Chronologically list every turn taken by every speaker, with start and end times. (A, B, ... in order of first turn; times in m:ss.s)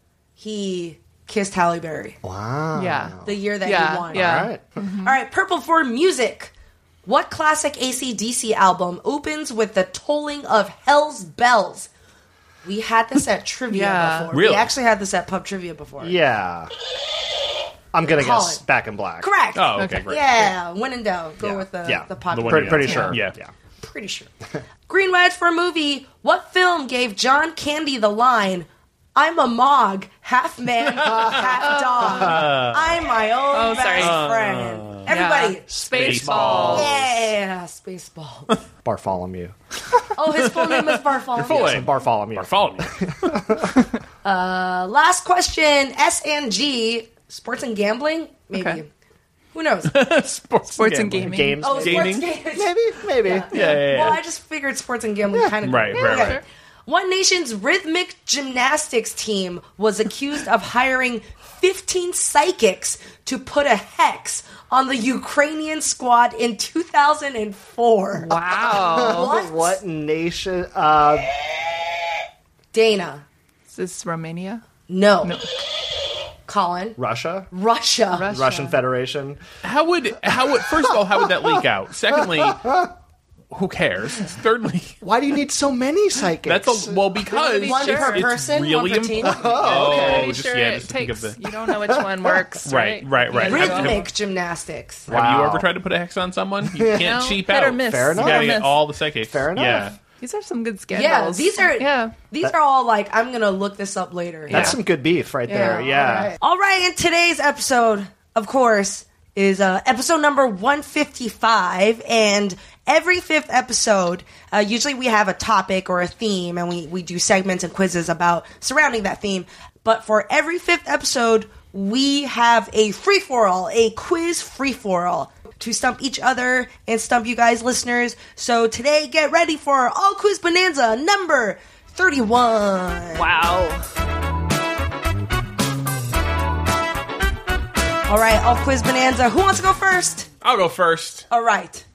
0:00.4-0:02.2 A
0:02.2-0:03.3 B
0:02.7-0:05.1 C
0:03.2-0:04.5 A
0:04.1-0:04.6 B
0:05.0-0:06.5 A
0:07.0-0:11.9 A
0:12.6-0:16.2 A
0:13.7-0:14.3 C
0:14.3-0:14.7 D
0:16.0-0:16.7 B
0:17.9-0:19.3 B
0:18.2-0:18.6 A
0:19.2-0:23.1 A
0:19.5-0:20.2 D
0:19.8-0:20.5 C
0:21.4-0:23.5 B
0:22.3-0:23.3 D
0:22.8-0:23.1 C
0:23.8-0:24.3 A
0:24.9-0:35.6 A
0:30.8-0:33.0 D
0:31.6-0:32.4 C
0:33.5-0:34.2 C
0:34.0-0:35.1 D
0:35.1-0:36.9 C
0:35.7-0:37.3 B
0:35.9-0:36.9 D
0:36.5-0:38.5 A
0:38.8-0:39.5 B
0:40.1-0:41.9 A
0:40.5-0:43.4 D
0:41.4-0:43.8 B
0:44.2-0:48.9 A
0:48.5-0:48.8 C
0:49.5-0:49.9 A
0:49.8-0:52.3 D
0:50.8-0:51.6 C
0:51.1-0:53.7 B
0:51.6-1:09.8 A
0:53.5-0:54.2 D
0:55.6-0:56.4 D
0:56.0-0:56.4 C
1:08.2-1:09.3 C
1:08.4-1:11.3 B
1:12.7-1:13.2 A
1:13.7-1:14.6 C
1:14.9-1:15.4 A
1:16.5-1:17.0 A
1:17.0-1:17.5 B
1:17.5-1:18.3 A
1:18.2-1:18.8 C
1:18.3-1:19.4 B
1:19.6-1:22.6 D
1:20.3-1:21.6 B
1:22.1-1:22.9 B
1:23.5-1:25.0 D
1:25.0-1:27.1 B
1:26.4-1:31.4 D
1:27.2-1:28.3 C
1:27.6-1:30.2 A
1:29.2-1:30.3 B
1:29.9-1:34.1 C
1:31.7-1:32.5 B
1:32.6-1:34.1 D
1:33.4-1:35.1 A
1:35.1-1:35.7 B
1:35.1-1:40.0 D
1:36.6-1:39.9 B
1:37.0-1:38.7 C
1:40.2-1:42.1 C
1:40.9-1:44.7 A
1:44.5-1:46.3 B
1:44.5-1:44.7 C
1:45.5-1:46.3 C
1:46.3-2:13.2 A
2:13.2-2:13.8 C
2:18.1-2:20.3 A
2:20.4-2:21.3 D
2:21.3-2:21.8 A